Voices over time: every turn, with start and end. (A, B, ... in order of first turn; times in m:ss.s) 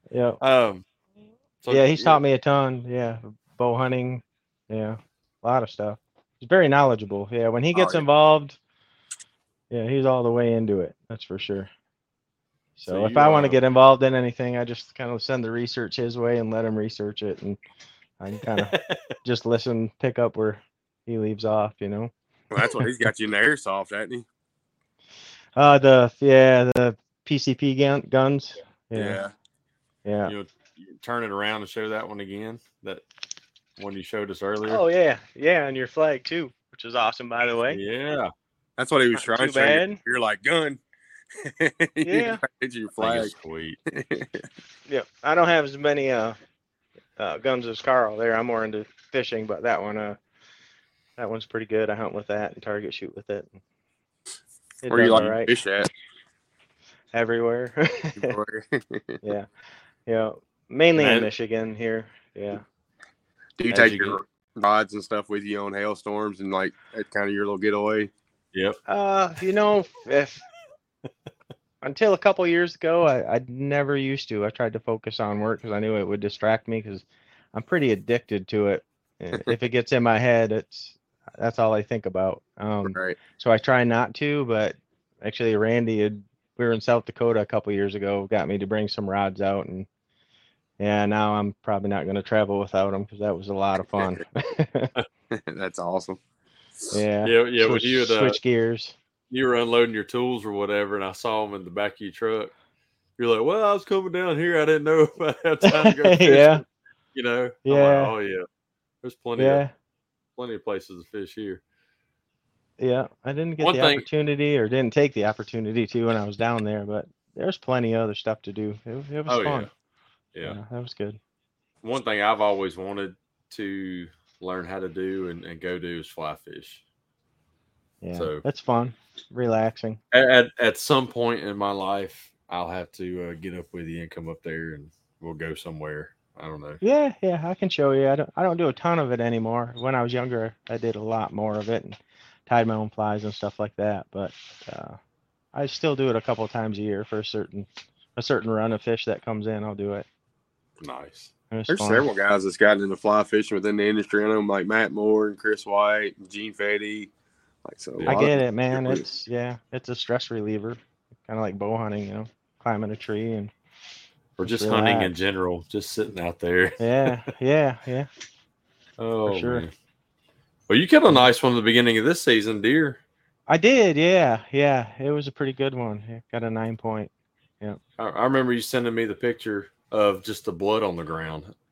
0:00.1-0:00.4 A
0:00.4-0:00.8 B
0:01.6-0:02.2 B
0:01.7-0:08.6 A
0:07.7-0:08.0 C
0:09.7-0:11.7 A
0:12.8-0:17.6 A
0:12.9-0:13.6 B
0:18.2-0:22.9 A
0:18.5-0:19.0 B
0:22.5-0:24.2 C
0:25.6-0:29.2 A
0:28.9-0:29.3 C
0:30.0-0:30.3 A
0:30.2-0:33.0 B
0:33.8-0:34.8 B
0:34.6-0:37.8 A
0:37.7-0:38.3 B
0:38.8-0:40.8 C
0:39.2-0:40.0 A
0:41.4-0:43.3 C
0:42.0-0:42.4 A
0:43.0-0:43.8 B
0:43.9-0:44.4 C
0:44.9-0:46.4 A
0:47.2-0:50.2 A
0:51.2-0:53.6 A
0:54.8-0:55.5 A
0:54.9-0:55.9 C
0:57.1-0:58.4 A
0:58.2-0:59.2 C
0:59.2-0:59.5 A
1:00.1-1:02.6 A
1:01.0-1:01.3 B
1:03.6-1:08.1 C
1:03.7-1:04.2 B
1:08.5-1:08.8 B
1:08.9-1:10.4 A
1:11.8-1:29.9 A
1:22.8-1:23.2 C
1:30.8-1:34.9 A
1:35.3-1:36.2 C
1:36.9-1:39.0 A
1:37.2-1:38.4 B
1:39.3-1:42.5 B
1:43.2-1:48.5 B
1:45.6-1:46.6 A
1:47.7-1:48.1 A
1:49.0-1:49.6 B
1:49.4-1:49.7 A
1:50.4-1:51.6 B
1:52.8-1:59.7 A
1:53.6-1:54.1 B
1:59.3-1:59.7 B
2:00.4-2:01.2 A
2:01.8-2:06.8 B
2:08.0-2:10.0 A
2:08.1-2:08.4 B
2:10.1-2:16.8 B
2:16.8-2:25.0 A
2:25.5-2:30.1 A
2:30.8-2:31.3 B
2:31.5-2:32.1 A
2:31.7-2:37.1 C
2:37.6-2:39.1 C
2:38.0-2:38.3 B
2:38.0-2:43.5 A
2:44.4-2:47.2 B
2:44.4-2:45.1 A
2:46.8-2:48.1 A
2:49.0-2:49.7 B
2:49.3-2:49.7 A
2:50.7-2:53.0 B
2:53.5-2:57.8 A
2:58.0-3:01.5 B